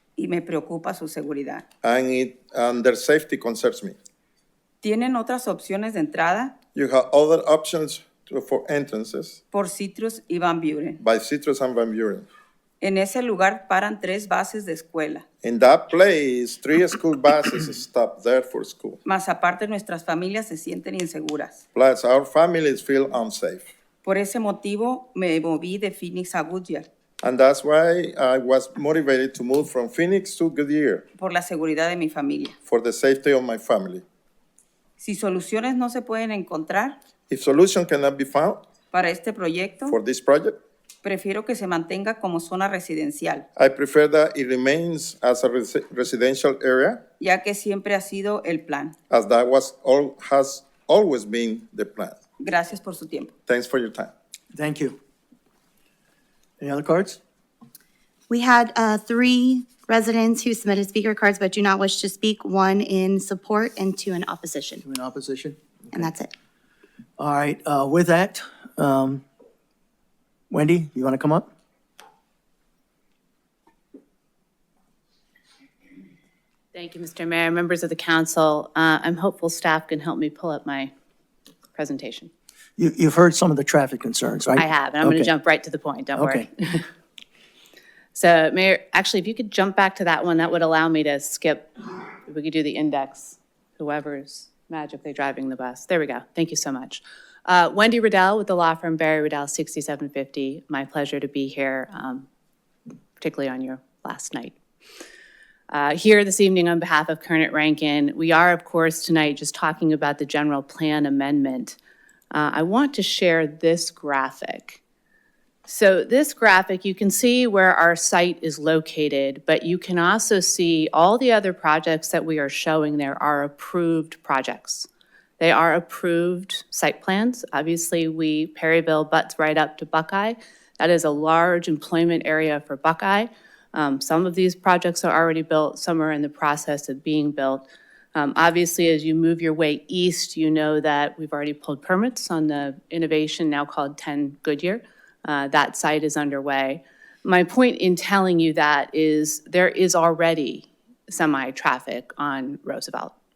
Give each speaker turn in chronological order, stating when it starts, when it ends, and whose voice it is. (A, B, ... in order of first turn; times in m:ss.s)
0:00.2-0:01.6 A
0:01.8-0:04.0 B
0:04.8-0:06.6 A
0:06.7-0:09.4 B
0:09.5-0:11.0 A
0:11.0-0:12.3 B
0:12.8-0:15.2 A
0:15.4-0:19.0 B
0:19.0-0:21.6 A
0:21.7-0:23.6 B
0:24.0-0:26.9 A
0:27.2-0:31.1 B
0:31.2-0:32.6 A
0:32.7-0:34.0 B
0:35.0-0:37.0 A
0:37.3-0:38.6 B
0:38.9-0:40.0 A
0:39.9-0:40.6 B
0:41.0-0:43.4 A
0:43.6-0:47.0 B
0:47.2-0:49.0 A
0:49.1-0:52.2 B
0:52.4-0:53.3 A
0:53.5-0:54.1 B
0:54.5-0:55.0 C
0:56.6-0:57.2 C
0:58.3-1:04.8 D
1:04.8-1:06.1 C
1:05.9-1:06.3 D
1:07.2-1:09.2 C
1:10.5-1:11.5 C
1:16.7-1:20.9 E
1:21.8-1:22.3 E
1:22.8-1:25.3 C
1:24.6-1:26.8 E
1:26.2-1:26.5 C
1:28.1-1:31.7 E
1:32.2-1:42.3 E
1:43.2-1:44.6 E
1:45.7-1:51.8 E
1:52.3-1:54.8 E
1:55.7-2:04.9 E
2:05.4-2:33.1 E